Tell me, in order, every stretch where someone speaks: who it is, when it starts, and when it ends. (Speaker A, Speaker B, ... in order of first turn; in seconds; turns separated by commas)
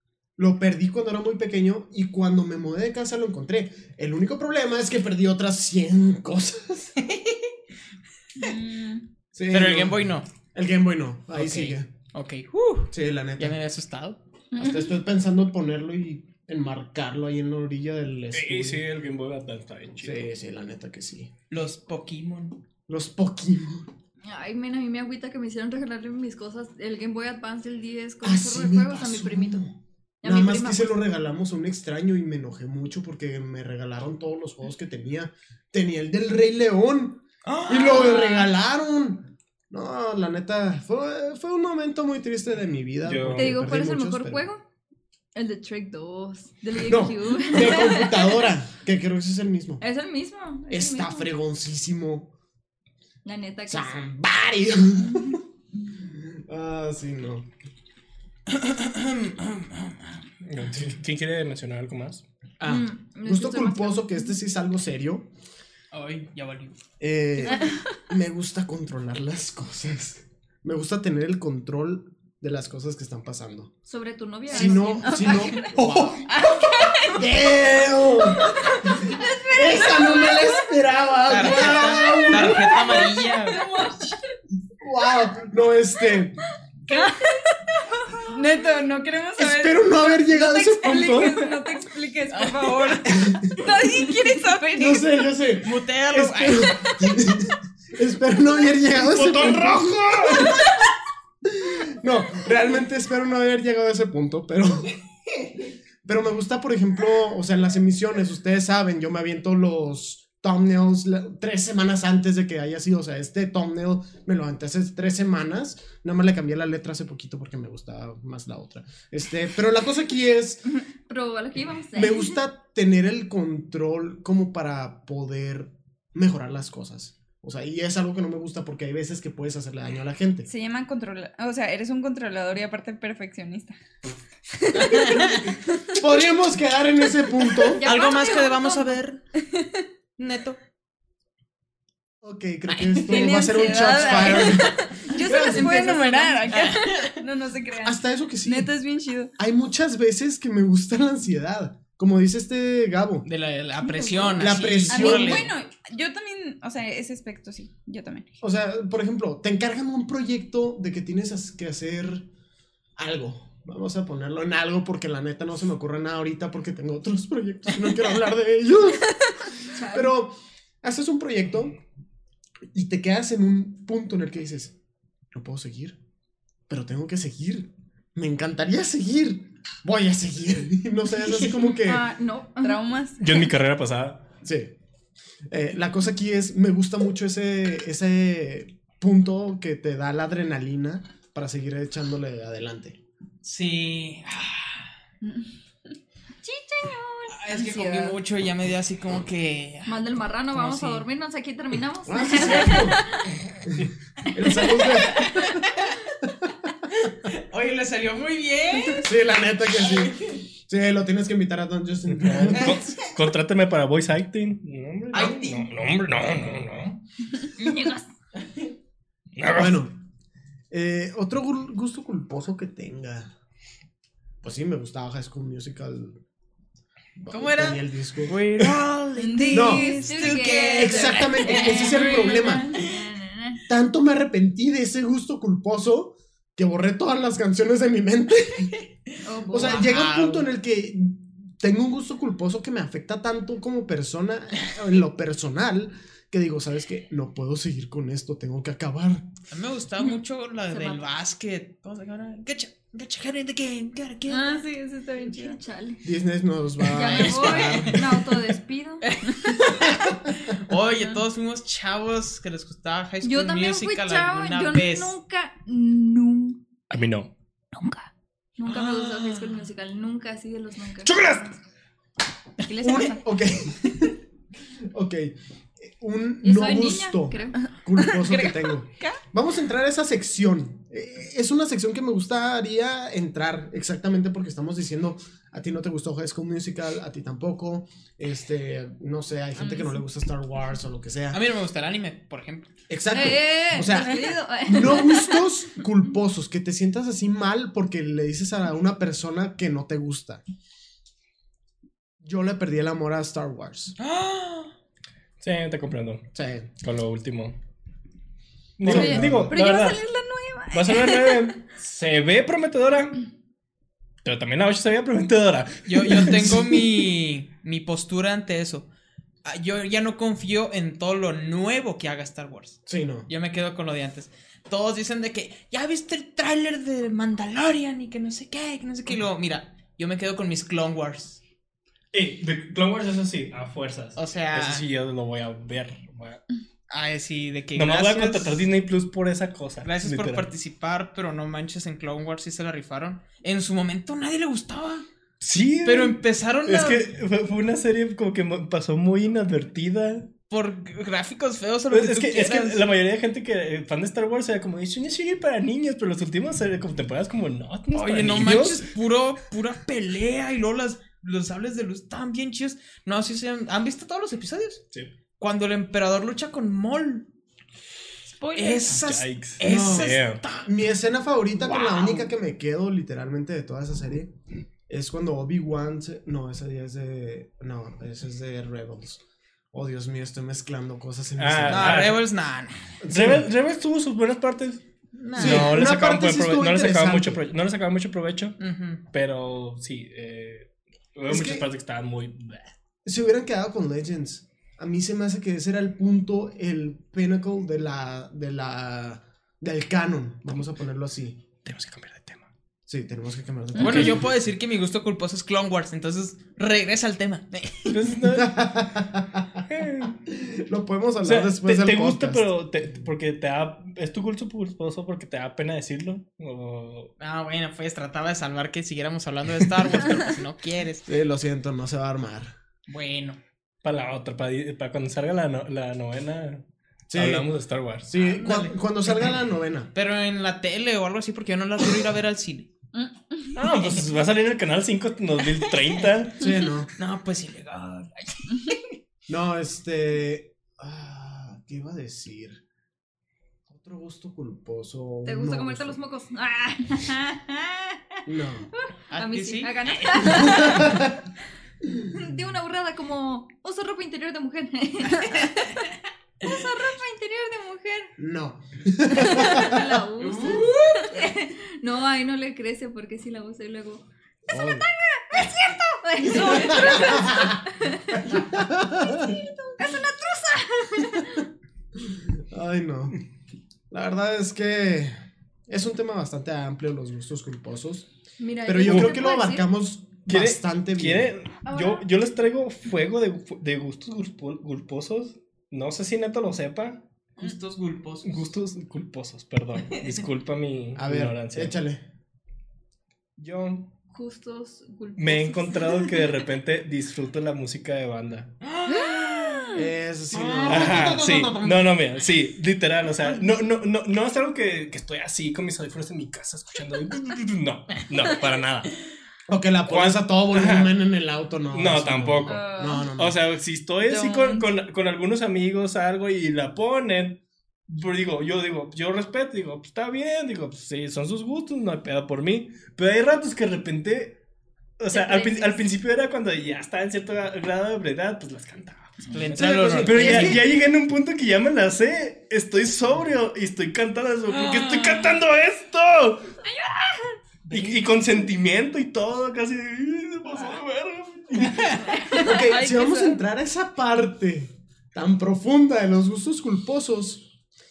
Speaker A: 0.4-7.0, Speaker B: 7.0-7.5, Speaker C: 8.3-9.0, Speaker A: 9.3-11.9, Speaker B: 9.5-10.3, Speaker B: 11.3-14.2, Speaker A: 12.9-13.6, Speaker C: 14.5-14.9, Speaker A: 14.6-18.8, Speaker D: 18.3-20.2, Speaker A: 20.0-21.3, Speaker B: 21.5-22.6, Speaker A: 22.9-23.9, Speaker E: 24.2-29.6, Speaker A: 28.2-44.5, Speaker E: 30.2-31.0, Speaker B: 37.4-38.5, Speaker D: 43.0-43.6, Speaker E: 43.3-44.6, Speaker E: 45.3-48.5, Speaker A: 46.8-49.8, Speaker E: 49.8-51.3, Speaker A: 50.7-52.3, Speaker E: 53.2-54.0, Speaker A: 53.7-55.4, Speaker A: 56.0-57.5, Speaker B: 58.5-60.1, Speaker D: 60.4-62.2, Speaker A: 62.6-65.3, Speaker E: 62.6-64.3, Speaker B: 65.9-66.8, Speaker A: 67.0-73.7, Speaker C: 67.5-67.8, Speaker E: 73.9-75.7, Speaker A: 74.5-82.8, Speaker C: 75.0-75.7, Speaker B: 75.6-76.1, Speaker C: 76.3-77.2, Speaker E: 76.8-77.1, Speaker C: 78.4-80.5, Speaker E: 78.4-80.5, Speaker B: 81.3-83.6, Speaker E: 81.5-83.1, Speaker C: 82.7-84.2, Speaker A: 84.8-86.4, Speaker C: 86.9-87.3, Speaker C: 88.2-95.1, Speaker A: 89.4-91.5, Speaker B: 92.3-93.0, Speaker A: 93.1-93.6, Speaker A: 94.8-100.7, Speaker B: 95.6-97.1, Speaker D: 98.9-100.6, Speaker A: 101.4-104.9, Speaker A: 106.0-120.6, Speaker E: 120.7-122.4, Speaker A: 121.9-130.5, Speaker C: 130.4-133.8, Speaker C: 134.5-136.0, Speaker A: 135.9-137.8, Speaker E: 137.6-139.0, Speaker B: 137.8-139.2, Speaker C: 139.4-139.8, Speaker B: 140.2-140.6, Speaker A: 142.2-146.4, Speaker B: 142.7-144.5, Speaker C: 143.1-149.3, Speaker E: 145.2-146.0, Speaker B: 146.4-147.2, Speaker A: 147.8-148.7, Speaker A: 149.4-153.3, Speaker B: 153.2-155.5, Speaker E: 153.8-154.7, Speaker A: 154.3-155.5, Speaker C: 154.9-158.4, Speaker A: 158.4-162.3, Speaker A: 163.0-171.8, Speaker E: 169.7-170.1, Speaker A: 172.7-174.7, Speaker A: 175.3-176.0, Speaker A: 176.7-182.0, Speaker E: 181.8-182.8, Speaker C: 182.6-183.4, Speaker D: 183.2-184.3, Speaker A: 184.4-184.8, Speaker A: 185.5-193.0, Speaker B: 193.4-194.9, Speaker C: 195.2-195.5, Speaker E: 196.4-198.2, Speaker B: 197.3-201.0, Speaker E: 199.8-203.3, Speaker A: 202.1-203.1, Speaker A: 203.6-205.5, Speaker B: 205.1-205.5, Speaker B: 207.0-209.1, Speaker A: 209.0-213.0, Speaker B: 209.8-210.4, Speaker D: 212.1-217.0, Speaker B: 215.1-215.7, Speaker E: 217.6-218.1, Speaker D: 219.3-219.8, Speaker A: 219.5-220.0, Speaker A: 220.7-223.3, Speaker A: 224.4-226.2, Speaker A: 227.2-228.8, Speaker B: 227.3-233.0, Speaker C: 229.2-230.6, Speaker A: 229.5-230.0, Speaker E: 230.0-233.6, Speaker A: 230.7-232.7, Speaker A: 233.7-238.8, Speaker B: 239.1-240.5, Speaker E: 239.2-239.9, Speaker A: 239.5-249.2, Speaker B: 249.5-254.5, Speaker E: 250.7-251.1, Speaker E: 254.3-256.0, Speaker C: 254.8-255.6, Speaker A: 256.0-258.2, Speaker E: 256.9-259.6, Speaker B: 257.0-257.9, Speaker B: 259.0-265.1, Speaker E: 263.2-266.6, Speaker D: 266.9-267.3, Speaker E: 267.7-271.5, Speaker B: 268.6-269.6, Speaker D: 271.0-271.5, Speaker E: 272.6-273.2, Speaker A: 272.8-274.1, Speaker A: 274.9-291.4, Speaker E: 276.4-277.6, Speaker C: 278.0-279.2, Speaker B: 291.3-292.7, Speaker A: 292.9-300.4, Speaker E: 293.1-295.5, Speaker A: 302.2-303.9, Speaker B: 304.0-304.7, Speaker D: 305.4-306.2, Speaker A: 306.3-306.7, Speaker D: 306.8-307.6, Speaker D: 308.8-310.0, Speaker A: 308.8-309.6, Speaker C: 308.8-311.6, Speaker D: 310.7-313.2, Speaker D: 314.2-316.8, Speaker B: 315.9-318.9, Speaker B: 319.4-331.4, Speaker A: 322.9-323.3, Speaker D: 332.1-336.4, Speaker B: 334.1-334.9, Speaker B: 336.9-338.7, Speaker D: 337.7-340.5, Speaker B: 339.8-345.1, Speaker D: 345.4-350.3, Speaker B: 345.8-347.1, Speaker B: 350.5-352.8, Speaker D: 351.9-358.9, Speaker B: 357.9-364.8, Speaker B: 365.4-367.3, Speaker C: 368.4-368.9, Speaker B: 368.4-370.7, Speaker D: 368.9-370.4, Speaker A: 369.6-374.3, Speaker B: 371.6-372.3, Speaker A: 374.9-379.2, Speaker A: 379.7-382.2, Speaker D: 381.4-382.2, Speaker B: 381.7-382.9, Speaker A: 383.0-383.5, Speaker D: 383.1-388.6, Speaker B: 385.2-385.9, Speaker A: 385.4-387.4, Speaker B: 388.6-389.0, Speaker D: 389.1-392.7, Speaker A: 391.3-391.7, Speaker A: 393.0-401.4, Speaker D: 401.6-402.4, Speaker A: 402.9-404.2, Speaker B: 403.8-408.1, Speaker D: 403.8-404.2, Speaker D: 407.9-408.6, Speaker A: 408.3-409.6, Speaker D: 409.7-410.2, Speaker A: 410.2-412.5, Speaker D: 411.2-417.1, Speaker B: 417.2-421.1, Speaker A: 421.1-422.5, Speaker B: 422.9-423.4, Speaker D: 423.8-428.1, Speaker A: 427.1-427.5, Speaker A: 428.0-429.9, Speaker B: 428.2-429.3, Speaker B: 429.9-432.7, Speaker C: 432.9-433.6, Speaker D: 433.5-436.4, Speaker B: 435.6-435.9, Speaker A: 436.4-436.9, Speaker B: 436.9-438.8, Speaker A: 439.3-442.6, Speaker A: 443.7-446.0, Speaker E: 445.2-448.0, Speaker A: 448.2-448.7, Speaker E: 448.7-451.1, Speaker B: 449.1-450.6, Speaker A: 450.3-451.2, Speaker E: 452.1-458.1, Speaker A: 458.2-460.6, Speaker E: 459.1-471.5, Speaker B: 460.2-461.1, Speaker A: 464.5-464.9, Speaker A: 466.3-467.6, Speaker A: 468.1-469.3, Speaker A: 472.1-473.2, Speaker A: 473.9-478.1, Speaker E: 478.4-479.7, Speaker A: 478.6-481.3, Speaker D: 478.8-479.1, Speaker D: 480.3-487.1, Speaker E: 481.6-482.1, Speaker B: 487.4-488.4, Speaker D: 488.2-491.8, Speaker A: 491.0-492.0, Speaker D: 493.4-493.9, Speaker E: 494.1-496.3, Speaker D: 495.2-498.5, Speaker B: 498.6-499.7, Speaker C: 498.9-499.9, Speaker A: 499.7-501.8, Speaker B: 500.3-501.2, Speaker D: 500.6-508.9, Speaker A: 509.5-513.4, Speaker D: 509.9-510.9, Speaker D: 511.7-524.4, Speaker C: 512.5-513.1, Speaker C: 514.1-514.7, Speaker D: 525.0-536.6, Speaker E: 525.1-525.8, Speaker B: 529.3-530.6, Speaker A: 529.6-530.7, Speaker B: 534.5-535.3, Speaker E: 536.7-537.4, Speaker D: 537.7-542.1, Speaker B: 537.7-538.0, Speaker B: 541.6-542.1, Speaker C: 542.3-543.4, Speaker A: 542.3-547.5